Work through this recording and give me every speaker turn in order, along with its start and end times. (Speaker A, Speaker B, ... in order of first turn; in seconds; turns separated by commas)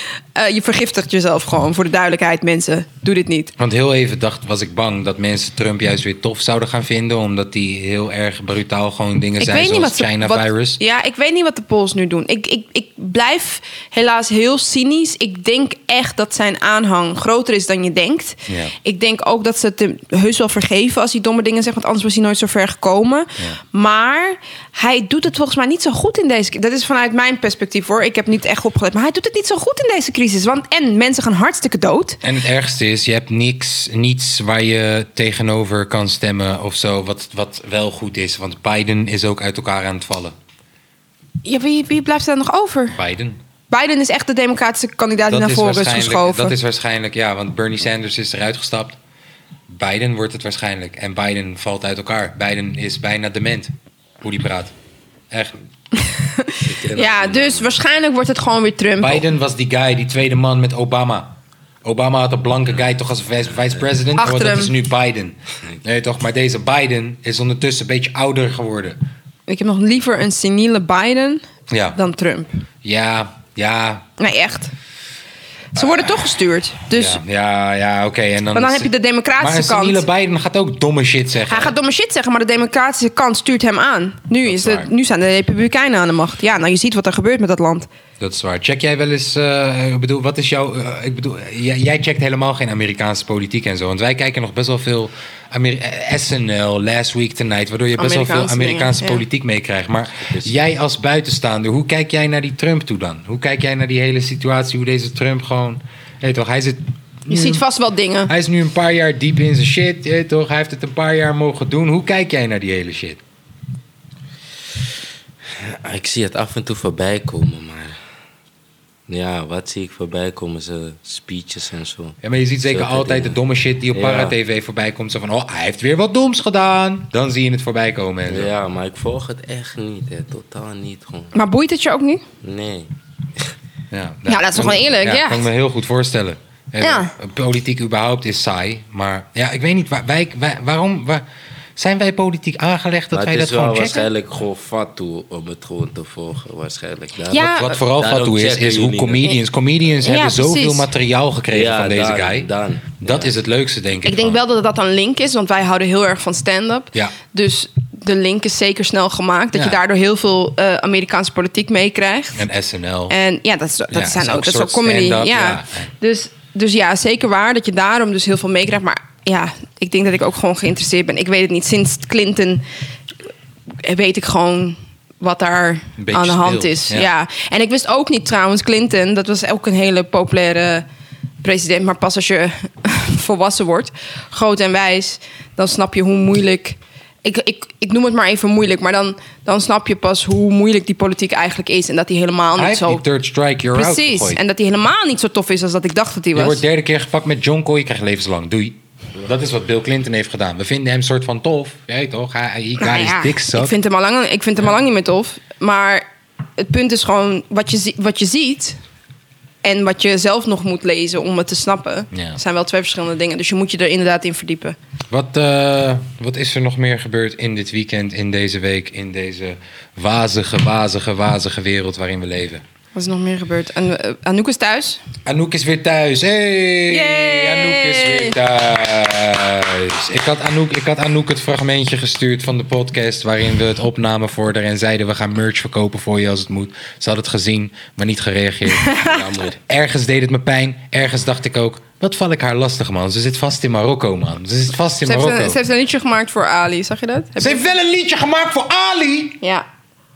Speaker A: 0.3-3.5, Speaker B: 3.6-10.8, Speaker A: 9.4-32.2, Speaker B: 18.5-18.7, Speaker B: 32.2-40.4, Speaker A: 41.4-43.0, Speaker B: 42.9-43.4, Speaker A: 43.7-46.5, Speaker B: 45.3-49.0, Speaker B: 49.7-54.7, Speaker B: 55.3-55.5, Speaker A: 56.0-59.3, Speaker C: 56.6-57.8, Speaker B: 59.0-69.0, Speaker A: 64.2-64.7, Speaker A: 69.5-72.5, Speaker B: 71.7-72.0, Speaker B: 72.8-74.0, Speaker A: 74.2-74.7, Speaker A: 75.8-77.2, Speaker B: 75.8-76.1, Speaker B: 76.9-81.8, Speaker A: 78.5-80.0, Speaker A: 81.5-87.9, Speaker B: 84.4-84.9, Speaker B: 88.2-107.6, Speaker A: 98.0-99.2, Speaker A: 107.3-108.3, Speaker B: 108.3-113.2, Speaker C: 115.6-118.0, Speaker C: 119.1-123.4, Speaker B: 122.2-128.5, Speaker C: 123.9-124.3, Speaker C: 128.3-131.3, Speaker A: 131.3-132.2, Speaker C: 132.4-132.9, Speaker B: 133.9-141.2, Speaker A: 134.3-135.4, Speaker A: 136.8-137.1, Speaker B: 141.8-144.1, Speaker C: 143.1-149.3, Speaker A: 147.3-147.7, Speaker B: 147.4-152.5, Speaker A: 150.0-150.9, Speaker C: 151.5-153.3, Speaker B: 153.0-154.4, Speaker A: 154.1-162.4, Speaker B: 159.5-159.8, Speaker B: 162.3-163.2, Speaker A: 163.1-172.6, Speaker B: 163.9-165.9, Speaker A: 173.8-180.8, Speaker B: 176.0-177.1, Speaker A: 181.4-193.0, Speaker B: 192.6-194.4, Speaker A: 193.7-196.6, Speaker B: 196.3-203.7, Speaker A: 202.8-206.1, Speaker A: 206.6-208.8, Speaker A: 209.6-214.8, Speaker B: 212.1-212.4, Speaker B: 215.1-222.6, Speaker A: 222.9-225.0, Speaker B: 225.2-245.6, Speaker A: 226.9-228.4, Speaker A: 238.7-239.1, Speaker C: 239.1-239.5, Speaker A: 245.0-247.6, Speaker B: 247.4-249.4